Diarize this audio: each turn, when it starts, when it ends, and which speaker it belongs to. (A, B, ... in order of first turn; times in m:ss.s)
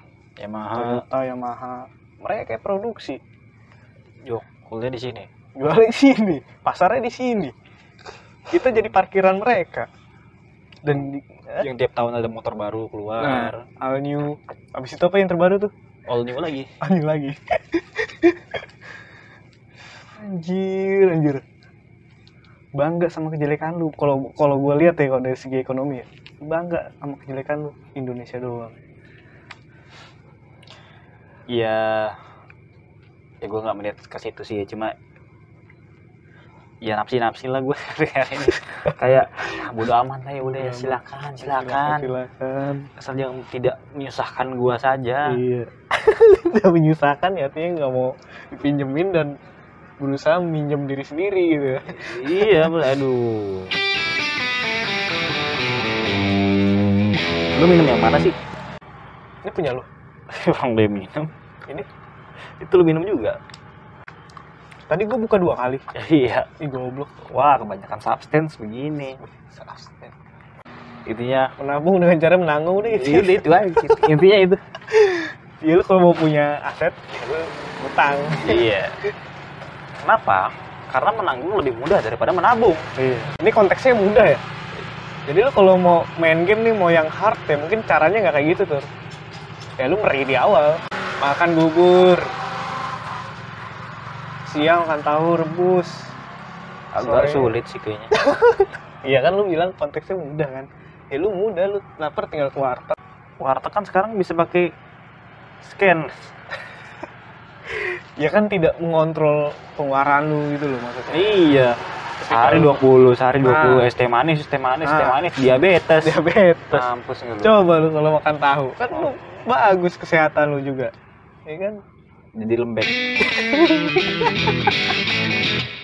0:00.4-0:01.0 A
0:00.7-0:03.2 B
0:04.2-0:05.3 A
0:05.6-0:07.6 B
0:08.5-0:09.9 B
0:10.8-0:11.7 B
0:11.6-0:13.6 A
0:13.2-0:15.7 B
0:16.1-0:16.7 A
0:16.8-0:18.6 B
0:20.2-0:21.4 B
0:22.8-0:28.8 B
0:31.5-0:32.2 A
0:33.4-0:35.0 A
0:36.8-0:42.1 A
0:40.4-0:42.9 B
0:43.0-0:45.4 A
0:45.2-0:49.4 B
0:50.0-0:52.7 B
0:51.9-0:53.8 A
0:57.5-0:58.4 A
0:59.4-0:59.9 B
1:00.3-1:01.3 A
1:02.6-1:03.4 A
1:04.9-1:05.8 B
1:06.0-1:06.5 A
1:06.6-1:07.3 B
1:07.3-1:09.2 A
1:09.4-1:10.1 B
1:11.1-1:11.5 A
1:11.6-1:14.0 B
1:12.9-1:14.6 A
1:14.9-1:18.7 B
1:18.4-1:19.0 A
1:20.0-1:22.9 A
1:23.0-1:24.4 B
1:25.3-1:28.9 B
1:29.8-1:32.4 B
1:34.5-1:36.1 B
1:36.9-1:38.1 A
1:37.0-1:37.6 B
1:38.2-1:43.0 B
1:43.4-1:44.7 A
1:45.6-1:46.3 A
1:47.7-1:51.4 B
1:51.1-1:51.8 A
1:52.2-1:52.8 B
1:52.3-1:56.2 A
1:53.4-1:53.9 B
1:54.8-1:55.2 B
1:56.0-1:56.9 B
1:56.7-1:57.6 A
1:57.4-2:00.9 B
1:58.9-1:59.4 A
2:01.5-2:01.8 B
2:02.4-2:03.0 A
2:03.3-2:04.7 B